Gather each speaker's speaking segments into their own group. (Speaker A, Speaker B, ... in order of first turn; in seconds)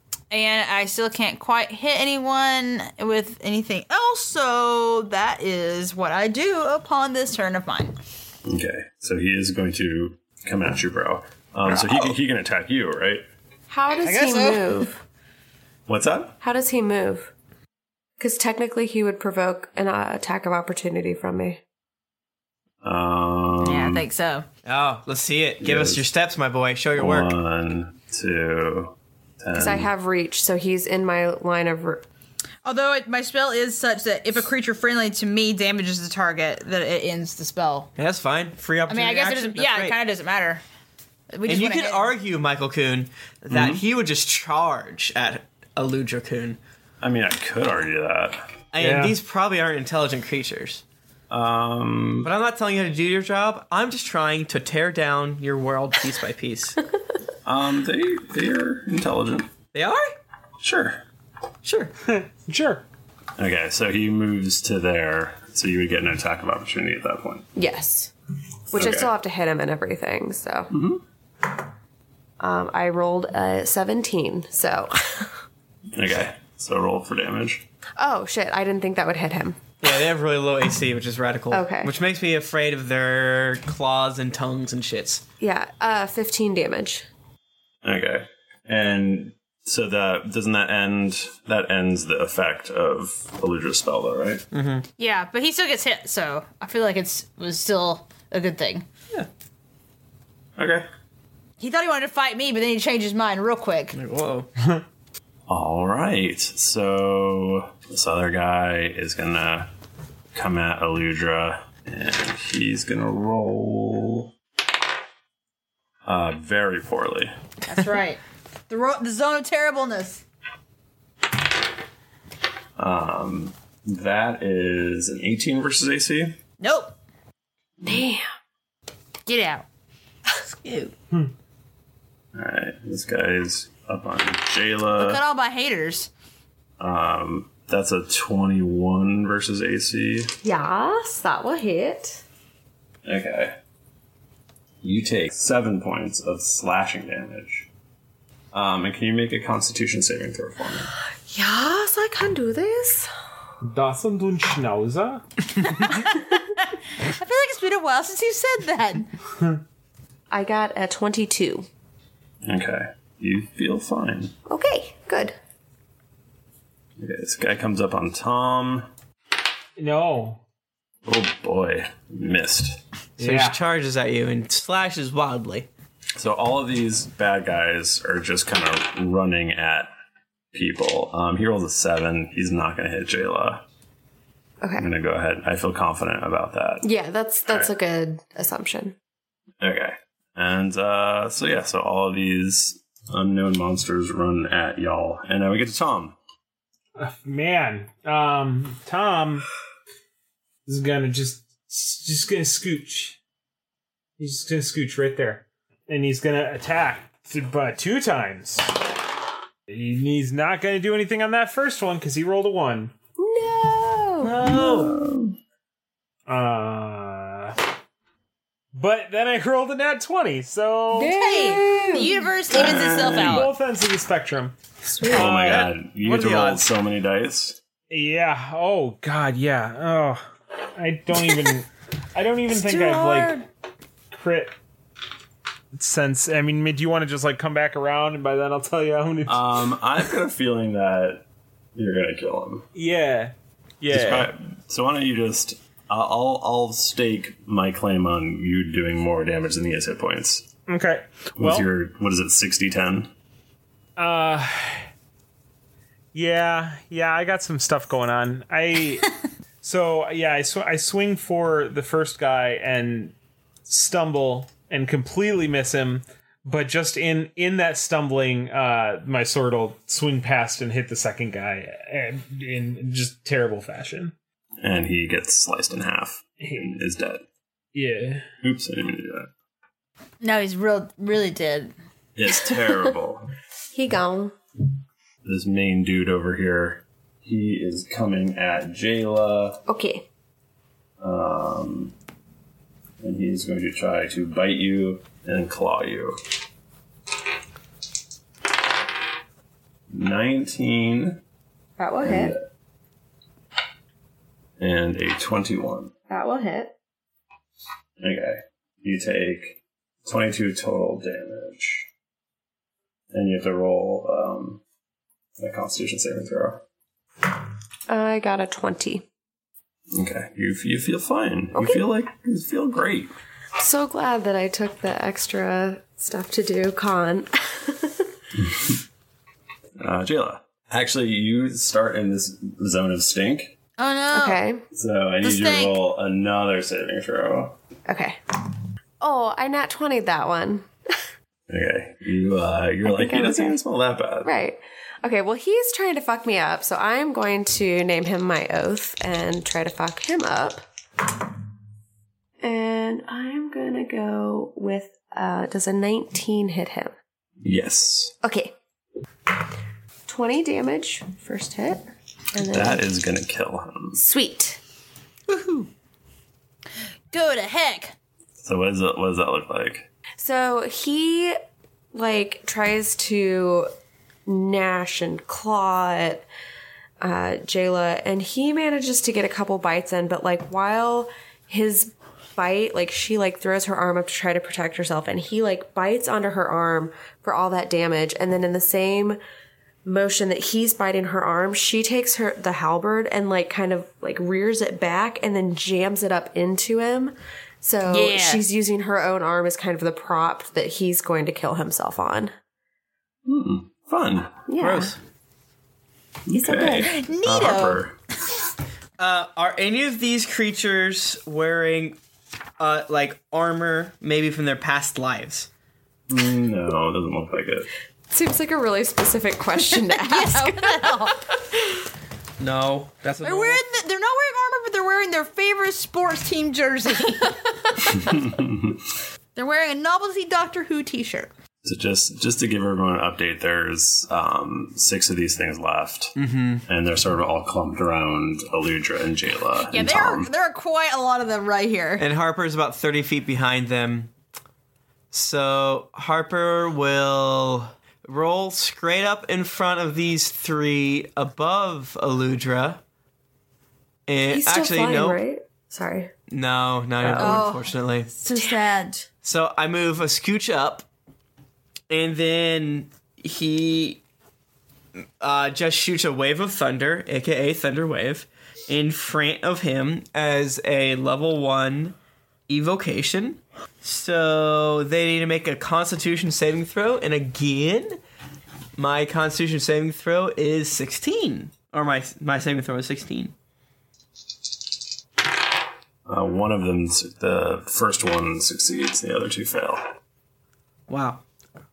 Speaker A: 0.3-8.0, 14.1-14.9, 23.6-24.5, 32.6-37.9, 38.9-40.6, 41.3-42.1, 95.0-98.9, 101.6-104.0, 117.7-120.2, 126.6-126.9, 129.3-129.7, 130.5-130.9, 134.9-136.1, 155.9-156.2, 157.1-159.1, 221.1-223.5, 232.6-233.4, 280.2-281.7, 333.8-334.4, 335.2-335.8, 365.3-365.7, 367.1-367.9, 397.9-398.4, 406.8-407.9, 419.9-421.2, 423.2-427.4, 429.4-431.3, 439.7-442.0, 457.2-459.1
Speaker B: 8.5-13.2, 15.9-16.4, 22.8-24.1, 25.6-26.1, 27.0-29.9, 43.5-43.8, 47.0-48.5, 51.3-52.3, 57.5-59.5, 60.6-61.0, 63.4-67.5, 68.7-69.1, 70.7-71.0, 75.9-77.6, 87.8-94.4, 100.6-100.9, 105.5-109.7, 110.3-114.3, 116.0-117.3, 122.8-126.3, 132.3-135.2, 136.8-140.3, 143.1-143.6, 144.8-147.7, 148.5-150.9, 162.4-164.3, 167.0-168.9, 171.1-172.8, 176.2-179.9, 180.5-183.6, 184.8-186.8, 189.6-196.2, 214.4-215.4, 222.5-223.5, 225.1-227.6, 239.3-241.2, 241.8-242.7, 243.9-250.4, 251.4-253.1, 274.6-277.2, 278.4-279.3, 282.2-283.3, 285.2-289.6, 291.0-291.9, 293.0-296.2, 299.9-301.2, 302.0-302.4, 304.6-305.9, 308.0-311.9, 313.1-314.6, 315.4-316.6, 319.9-323.1, 329.8-333.5, 334.7-337.6, 341.5-344.3, 357.4-358.1, 362.4-364.0, 368.4-369.9, 403.3-404.4, 406.3-407.9, 416.1-417.7, 428.1-428.8, 431.6-436.1, 436.7-440.3, 486.1-489.9
Speaker C: 13.7-15.0, 16.4-17.3, 18.2-21.6, 29.5-32.0, 67.6-68.1, 68.7-70.7, 72.4-75.3, 78.0-79.6, 81.5-81.9, 85.4-87.1, 127.8-128.3, 140.4-142.2, 151.3-153.1, 160.3-161.7, 164.5-165.3, 184.6-184.9, 186.8-188.9, 213.2-214.4, 220.9-222.3, 225.0-225.3, 282.4-282.9, 283.7-284.3, 289.7-290.1, 301.8-302.3, 306.1-306.7, 317.9-319.0, 321.6-321.9, 323.6-328.0, 334.1-334.6, 337.9-338.2, 339.0-340.7, 342.8-343.6, 344.2-350.6, 352.4-356.9, 358.2-358.5, 360.1-361.8, 362.4-362.9, 364.0-364.6, 370.2-371.4, 371.9-373.7, 374.3-376.2, 377.0-389.2, 389.9-402.3, 404.5-404.9, 406.3-406.9, 418.1-421.2, 454.3-456.1, 457.0-457.4
Speaker D: 24.6-27.3, 38.0-40.0, 41.5-46.6, 48.7-50.8, 52.2-56.8, 59.7-60.1, 61.6-61.9, 79.8-85.2, 94.5-94.8, 103.9-104.5, 173.2-175.7, 214.2-215.0, 225.1-226.7, 404.6-405.0, 409.0-412.0, 412.6-415.5, 422.4-423.6, 436.2-436.6, 442.0-444.1, 445.1-452.8, 454.1-455.2, 456.3-458.1, 459.2-460.9, 461.9-464.0, 465.2-472.0, 472.5-478.0, 478.8-483.3, 490.9-491.2
Speaker E: 48.8-49.2, 62.1-62.9, 153.6-155.7, 169.8-170.4, 173.2-173.6, 197.0-199.4, 200.7-203.2, 204.2-208.7, 209.7-212.9, 216.3-217.6, 218.7-221.2, 223.2-224.5, 227.9-230.2, 230.8-233.4, 234.2-234.5, 235.7-239.6, 242.8-244.3, 250.7-251.7, 254.0-254.9, 256.1-259.1, 259.6-263.1, 263.7-274.1, 276.4-276.8, 277.8-278.3